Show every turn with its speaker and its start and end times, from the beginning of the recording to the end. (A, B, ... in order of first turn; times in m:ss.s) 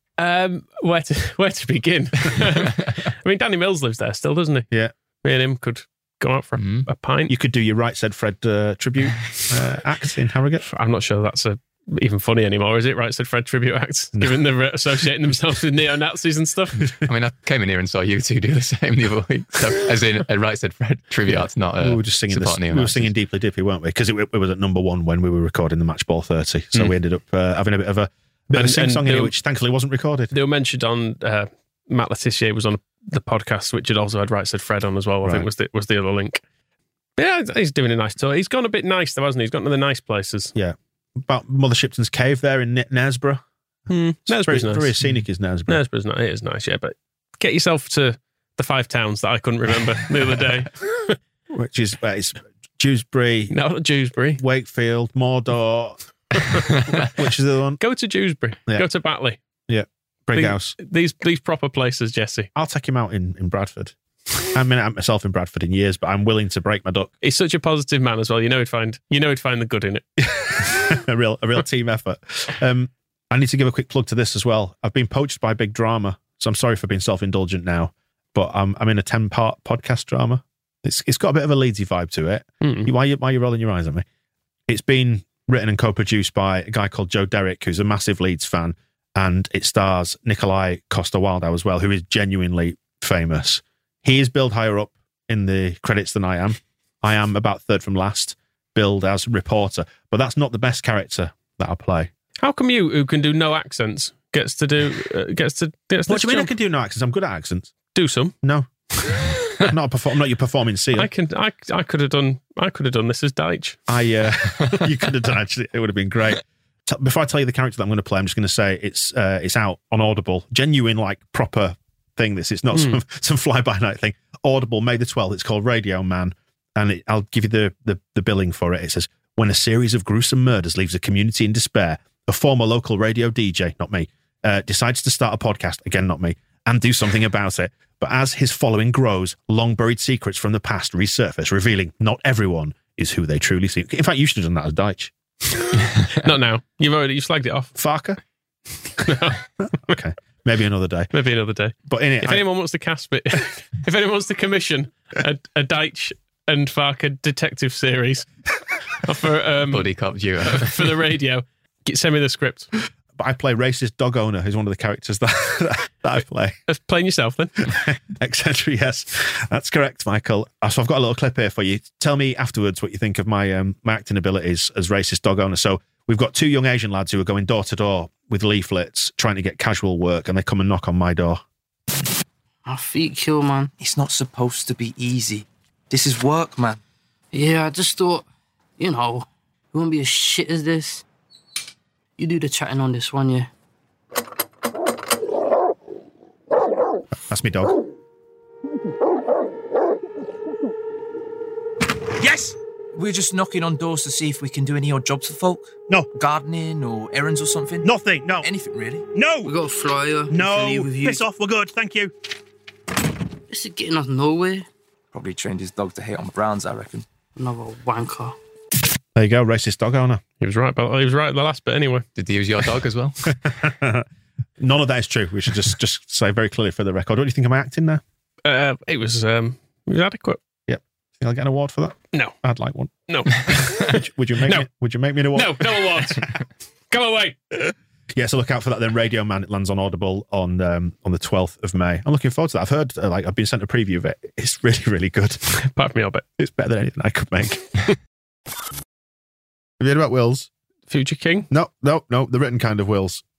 0:00.2-0:04.7 A
0:05.2-0:07.3 A
0:06.6-0:06.9 B
0:07.3-0:10.6 C
0:10.6-0:16.9 A
0:14.2-0:14.4 C
0:17.0-0:23.1 B
0:21.3-0:30.3 C
0:28.6-0:29.3 A
0:30.3-0:36.4 A
0:37.2-0:40.5 A
0:40.5-0:43.4 C
0:43.9-0:45.0 A
0:44.2-0:45.8 C
0:45.7-0:51.2 A
0:51.5-0:53.5 C
0:53.5-0:54.4 A
0:54.4-0:56.0 C
0:56.9-0:57.8 C
0:57.8-0:59.4 A
0:59.7-1:00.8 C
1:00.3-1:02.5 A
1:02.6-1:03.9 C
1:04.4-1:07.1 C
1:07.2-1:10.0 A
1:10.2-1:24.0 C
1:22.6-1:22.9 A
1:24.7-1:42.1 C
1:42.4-1:46.5 A
1:46.1-1:47.7 C
1:47.9-1:48.3 A
1:48.4-1:48.7 C
1:49.0-1:49.7 A
1:49.6-1:51.1 C
1:51.0-1:53.8 A
1:53.9-2:25.1 C
2:02.7-2:03.0 A
2:26.2-2:27.7 A
2:27.8-2:28.2 C
2:29.0-2:29.4 A
2:29.6-2:31.1 C
2:31.1-2:38.2 A
2:31.9-2:32.4 C
2:38.9-2:39.9 A
2:39.7-2:40.9 B
2:40.4-2:42.7 A
2:43.2-2:46.6 C
2:46.7-2:47.7 A
2:47.7-3:01.4 C
3:02.6-3:03.7 D
3:03.8-3:06.8 E
3:07.3-3:08.2 D
3:08.8-3:11.0 D
3:12.2-3:13.5 D
3:17.2-3:17.8 C
3:22.2-3:22.5 C
3:22.9-3:27.9 E
3:27.8-3:28.4 C
3:28.4-3:29.0 E
3:29.1-3:29.5 C
3:29.4-3:31.2 D
3:30.3-3:32.1 C
3:33.5-3:34.7 D
3:35.1-3:37.0 E
3:37.4-3:38.4 D
3:39.2-3:40.2 C
3:40.4-3:42.0 A
3:42.1-3:43.4 B
3:43.3-3:44.0 C
3:44.6-3:48.0 C
3:48.4-3:50.4 A
3:50.7-3:56.2 C
3:53.1-3:54.7 A
3:55.3-3:57.4 A
3:57.6-4:05.4 C
4:05.5-4:06.2 A
4:06.4-4:07.8 C
4:09.8-4:10.5 C
4:10.9-4:11.5 A
4:11.5-4:13.2 C